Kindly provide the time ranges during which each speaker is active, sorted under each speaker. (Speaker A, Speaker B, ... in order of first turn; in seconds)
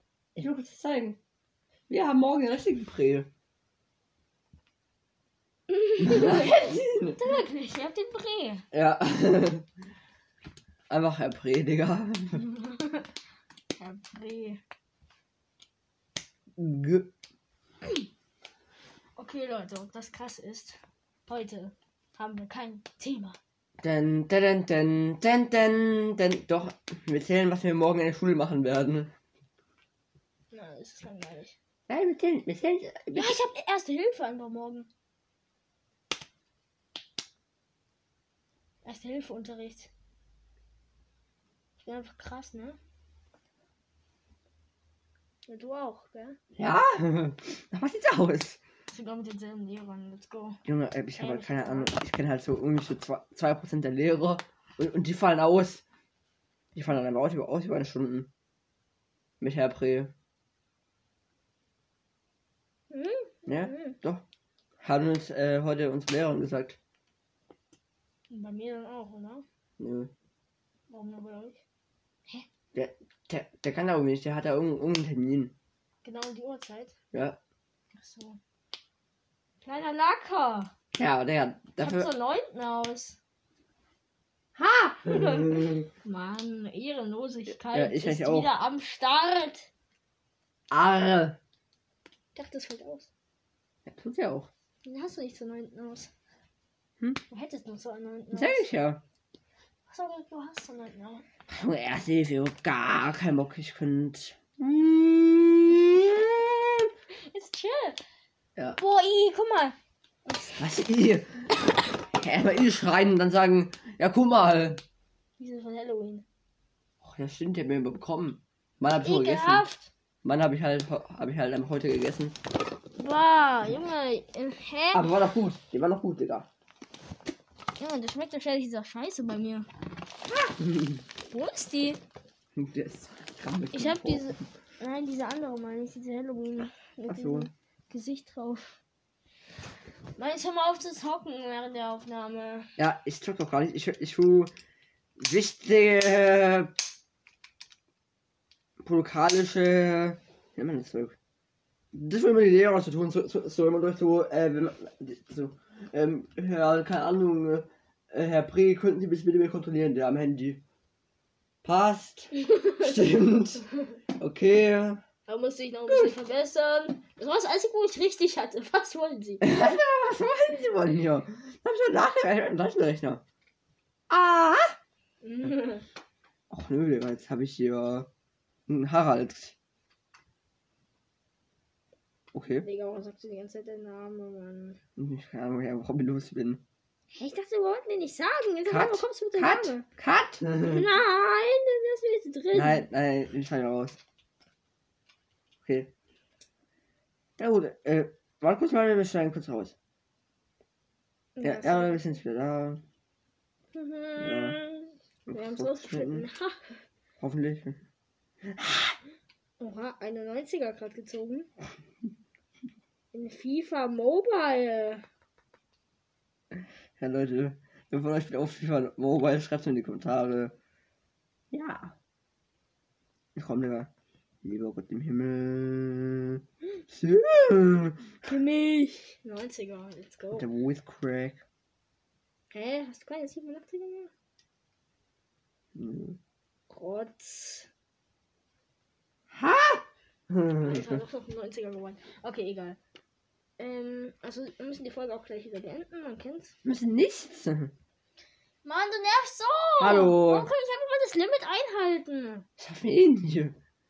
Speaker A: 0.4-1.2, 1.9-3.3, 6.0-7.2, 8.7-9.7, 10.9-12.4, 16.6-17.1, 23.8-29.1, 31.9-33.4, 46.6-48.6, 50.7-55.8, 56.8-58.3, 59.4-60.1, 63.5-64.2, 64.8-66.8, 69.8-70.1, 72.7-75.5, 77.1-77.4, 80.9-82.1, 84.6-85.8, 87.6-88.5, 90.7-91.4, 93.9-94.5, 98.3-99.0, 101.5-106.9, 110.6-111.4, 112.1-114.8, 117.0-119.7, 120.2-122.4, 124.9-126.5, 130.6-131.0, 132.6-134.3, 137.1-137.5, 142.8-144.5, 145.2-146.7, 148.8-151.2, 151.9-160.6, 161.6-163.7, 164.2-165.0, 169.4-173.2, 174.1-174.8, 176.5-178.1, 178.7-179.6, 182.3-182.7, 185.0-186.6, 188.7-190.9, 192.5-194.0, 195.6-195.9, 197.4-199.8, 201.4-202.8, 204.2-204.6, 205.3-206.3, 207.2-207.8, 208.5-209.0, 217.0-220.5, 221.5-221.9, 223.3-223.9, 224.4-228.1, 230.3-231.4, 235.8-236.2, 239.3-241.0, 246.6-247.7, 249.8-250.5, 252.6-253.6
Speaker B: 5.7-8.7, 12.4-13.1, 13.8-14.6, 19.2-23.4, 30.5-31.6, 33.1-34.9, 38.9-39.9, 41.8-42.8, 45.5-46.4, 48.9-50.6, 51.1-51.9, 62.9-64.0, 68.3-69.4, 70.9-71.6, 76.0-76.9, 77.9-78.4, 79.6-80.7, 81.8-83.2, 85.1-89.7, 92.3-93.1, 94.8-96.1, 97.3-98.7, 99.9-101.2, 107.3-108.0, 108.8-110.6, 115.4-116.2, 119.0-119.9, 123.0-125.1, 127.8-129.7, 131.3-132.0, 133.7-138.8, 140.2-142.7, 162.4-163.0, 165.3-169.4, 175.2-175.9, 182.6-184.8, 187.1-189.9, 190.7-192.9, 201.4-202.0, 203.7-206.8, 209.6-211.5, 213.1-215.0, 228.2-230.5, 232.5-234.1, 236.7-237.7, 240.6-242.8, 243.6-246.5, 248.6-252.5